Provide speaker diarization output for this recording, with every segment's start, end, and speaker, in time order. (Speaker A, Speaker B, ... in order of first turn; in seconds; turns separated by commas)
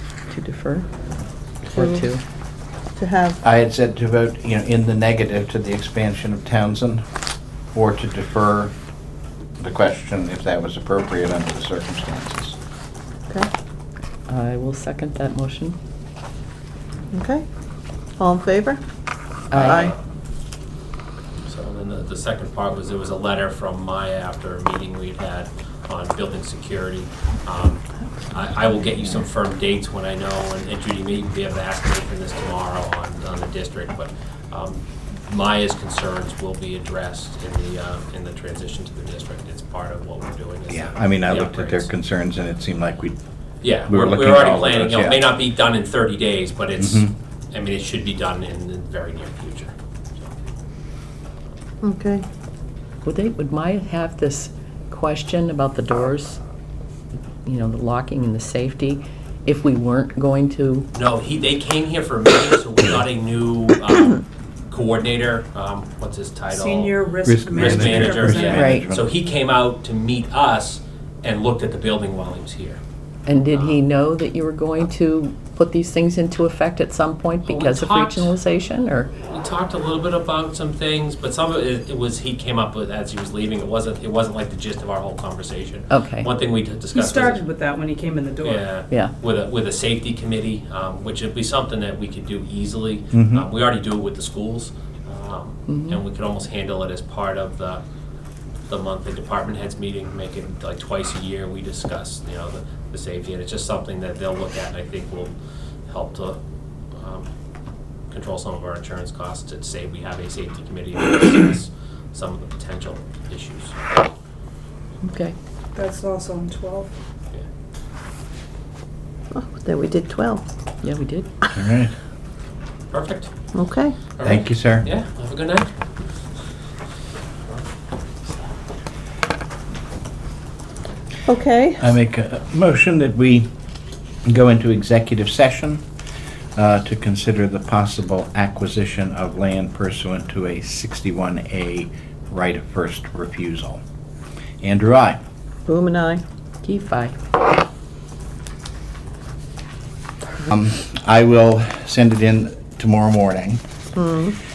Speaker A: 0.3-0.9, Speaker A: 1.6-2.2, Speaker B: 1.7-2.0, Speaker B: 3.0-3.4, Speaker C: 3.4-7.0, Speaker C: 7.7-8.7, Speaker C: 9.6-12.6, Speaker A: 14.3-15.8, Speaker B: 17.1-17.4, Speaker B: 18.2-18.8, Speaker A: 19.5-19.9, Speaker B: 19.5-19.9, Speaker D: 19.6-19.9, Speaker D: 21.4-41.9, Speaker C: 40.7-43.2, Speaker D: 43.6-50.3, Speaker C: 43.9-45.3, Speaker C: 46.8-47.1, Speaker B: 51.8-52.2, Speaker A: 53.0-56.4, Speaker A: 57.4-60.9, Speaker D: 60.9-72.8, Speaker E: 66.5-68.7, Speaker C: 67.2-69.0, Speaker A: 68.5-68.8, Speaker A: 73.2-79.1, Speaker D: 73.5-73.8, Speaker D: 77.4-78.3, Speaker D: 79.2-87.5, Speaker A: 85.9-86.3, Speaker E: 86.9-88.7, Speaker D: 88.4-97.8, Speaker A: 88.9-89.1, Speaker C: 93.1-93.4, Speaker A: 95.7-96.0, Speaker D: 98.7-105.3, Speaker D: 105.9-106.4, Speaker D: 106.9-107.3, Speaker D: 108.1-113.7, Speaker A: 115.0-115.3, Speaker E: 115.7-116.9, Speaker B: 119.3-120.4, Speaker A: 120.8-121.3, Speaker C: 121.5-121.9, Speaker D: 122.9-123.3, Speaker B: 123.5-124.0, Speaker D: 124.2-125.7, Speaker C: 124.2-124.9, Speaker B: 131.2-131.9, Speaker C: 131.8-133.5, Speaker C: 134.2-135.8, Speaker C: 136.6-143.8, Speaker C: 144.6-145.2, Speaker B: 145.7-146.2, Speaker A: 146.6-147.2, Speaker C: 150.5-153.6, Speaker B: 153.9-154.3